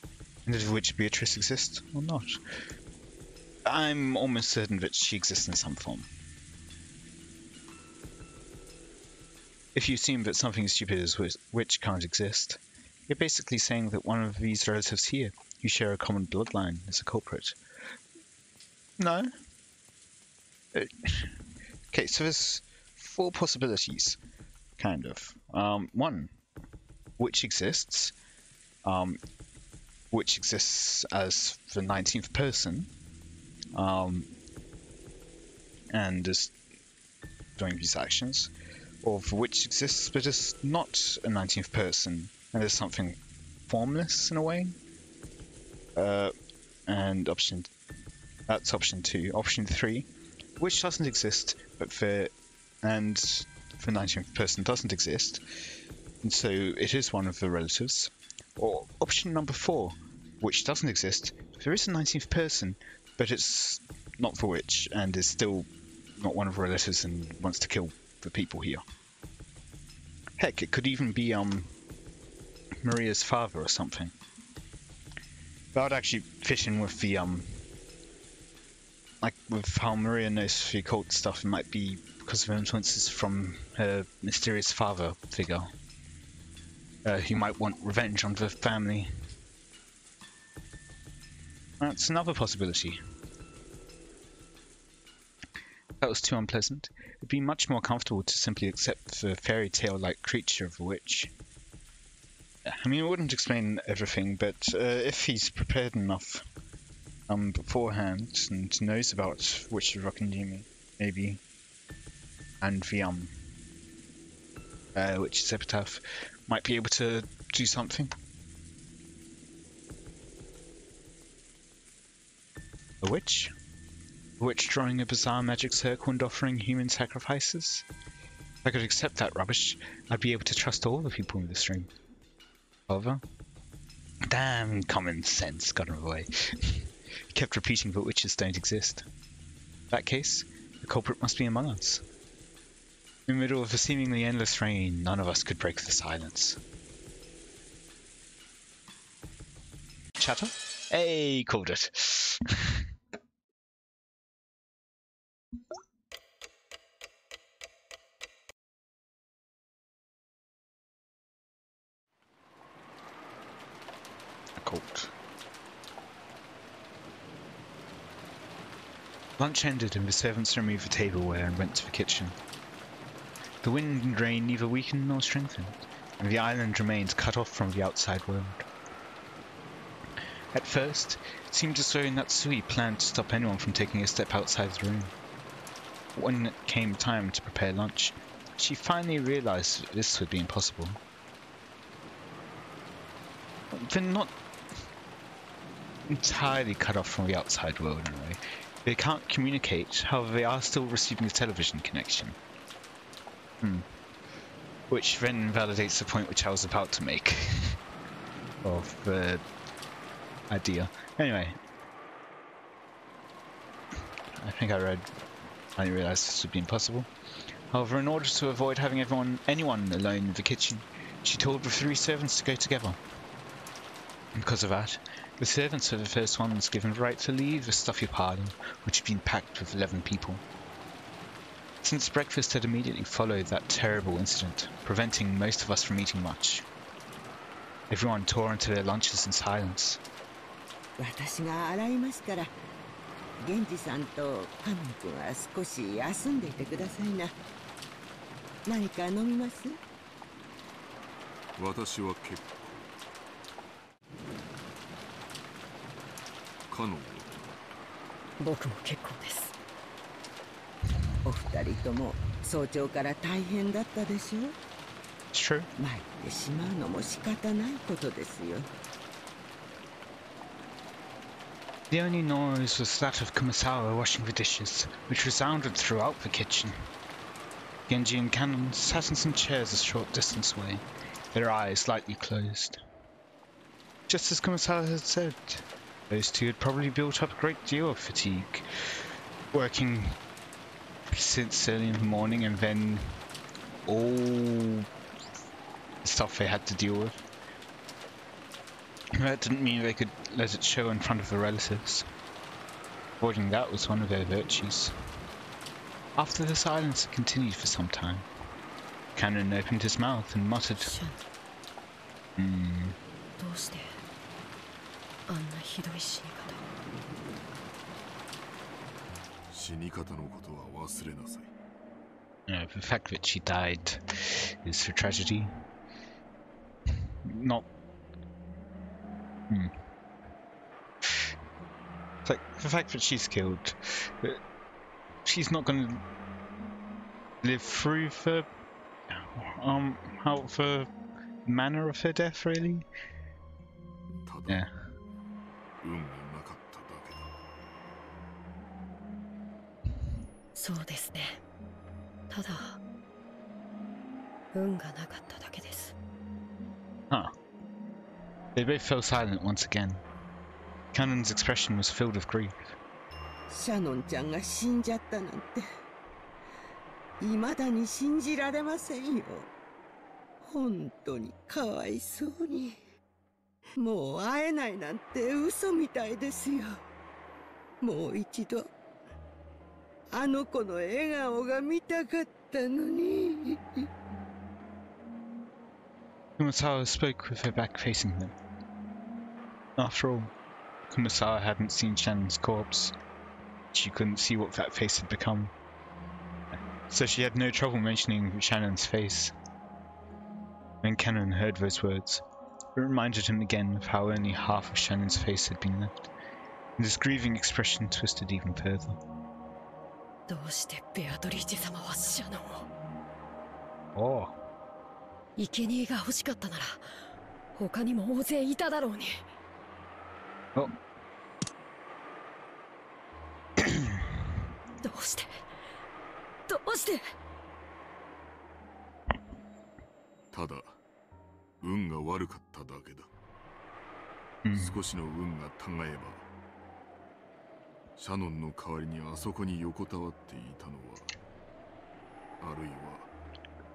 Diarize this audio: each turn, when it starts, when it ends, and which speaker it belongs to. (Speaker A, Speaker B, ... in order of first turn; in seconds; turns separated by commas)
Speaker A: 0.5-2.3, Speaker A: 3.6-6.1, Speaker A: 9.7-17.6, Speaker A: 19.0-19.3, Speaker A: 20.7-21.3, Speaker A: 21.9-24.2, Speaker A: 24.8-26.3, Speaker A: 27.2-28.1, Speaker A: 28.8-29.2, Speaker A: 30.1-32.9, Speaker A: 33.7-34.3, Speaker A: 35.9-36.5, Speaker A: 37.6-38.5, Speaker A: 39.0-43.2, Speaker A: 43.7-44.7, Speaker A: 46.0-46.3, Speaker A: 46.9-47.7, Speaker A: 48.5-52.3, Speaker A: 52.8-55.4, Speaker A: 56.2-68.8, Speaker A: 70.4-71.7, Speaker A: 72.8-74.1, Speaker A: 75.7-77.6, Speaker A: 79.2-85.7, Speaker A: 87.0-89.1, Speaker A: 91.8-93.0, Speaker A: 96.0-101.3, Speaker A: 102.7-106.4, Speaker A: 107.3-111.4, Speaker A: 112.6-113.3, Speaker A: 114.9-118.1, Speaker A: 123.0-123.5, Speaker A: 124.4-127.8, Speaker A: 128.6-131.9, Speaker A: 132.9-133.2, Speaker A: 134.2-139.0, Speaker A: 139.9-142.0, Speaker A: 143.3-146.6, Speaker A: 150.2-152.8, Speaker A: 164.6-165.1, Speaker A: 169.4-172.3, Speaker A: 173.6-178.6, Speaker A: 180.5-185.1, Speaker A: 186.1-191.0, Speaker A: 193.7-194.3, Speaker A: 196.1-202.3, Speaker A: 204.9-207.8, Speaker A: 208.6-209.4, Speaker A: 210.5-211.6, Speaker A: 214.4-215.1, Speaker A: 215.8-217.1, Speaker A: 217.7-223.0, Speaker A: 224.3-230.4, Speaker A: 231.8-236.7, Speaker A: 237.9-240.0, Speaker B: 241.0-242.5, Speaker B: 243.4-247.3, Speaker B: 248.7-249.8, Speaker C: 251.6-252.9, Speaker C: 256.7-257.5, Speaker D: 258.4-259.5, Speaker B: 261.2-264.5, Speaker A: 265.3-265.7, Speaker B: 265.8-268.7, Speaker A: 271.9-276.9, Speaker A: 277.9-282.8, Speaker A: 284.1-288.7, Speaker A: 289.5-290.1, Speaker A: 291.1-293.2, Speaker A: 293.9-294.9, Speaker A: 296.0-297.1, Speaker A: 299.1-302.0, Speaker A: 303.2-304.9, Speaker A: 306.1-308.3, Speaker A: 309.1-310.9, Speaker D: 310.8-311.2, Speaker A: 312.4-313.0, Speaker D: 313.4-314.0, Speaker D: 315.3-316.6, Speaker C: 319.5-321.5, Speaker A: 322.5-325.5, Speaker A: 327.2-327.7, Speaker A: 332.2-334.4, Speaker A: 335.2-336.0, Speaker A: 337.4-338.4, Speaker A: 339.1-340.9, Speaker A: 341.4-342.8, Speaker C: 344.2-344.7, Speaker C: 345.8-347.3, Speaker D: 350.5-351.4, Speaker D: 352.3-352.8, Speaker D: 354.5-355.9, Speaker A: 358.6-360.0, Speaker A: 360.9-362.7, Speaker B: 363.5-365.6, Speaker B: 367.2-369.5, Speaker B: 370.4-372.8, Speaker B: 373.8-376.8, Speaker B: 377.8-378.7, Speaker B: 380.1-383.8, Speaker A: 386.4-388.3, Speaker A: 389.8-390.3, Speaker A: 390.9-392.9, Speaker A: 393.7-395.5, Speaker A: 396.9-399.3, Speaker A: 400.8-402.2, Speaker A: 402.8-405.9, Speaker A: 406.8-409.0, Speaker D: 410.3-412.6, Speaker A: 413.9-414.3, Speaker D: 415.4-416.8, Speaker D: 417.5-419.2, Speaker D: 424.8-425.4, Speaker D: 426.5-427.0, Speaker C: 430.3-430.8, Speaker C: 431.6-433.1, Speaker A: 434.4-434.8, Speaker C: 434.5-436.3, Speaker C: 438.0-441.1, Speaker C: 442.4-443.1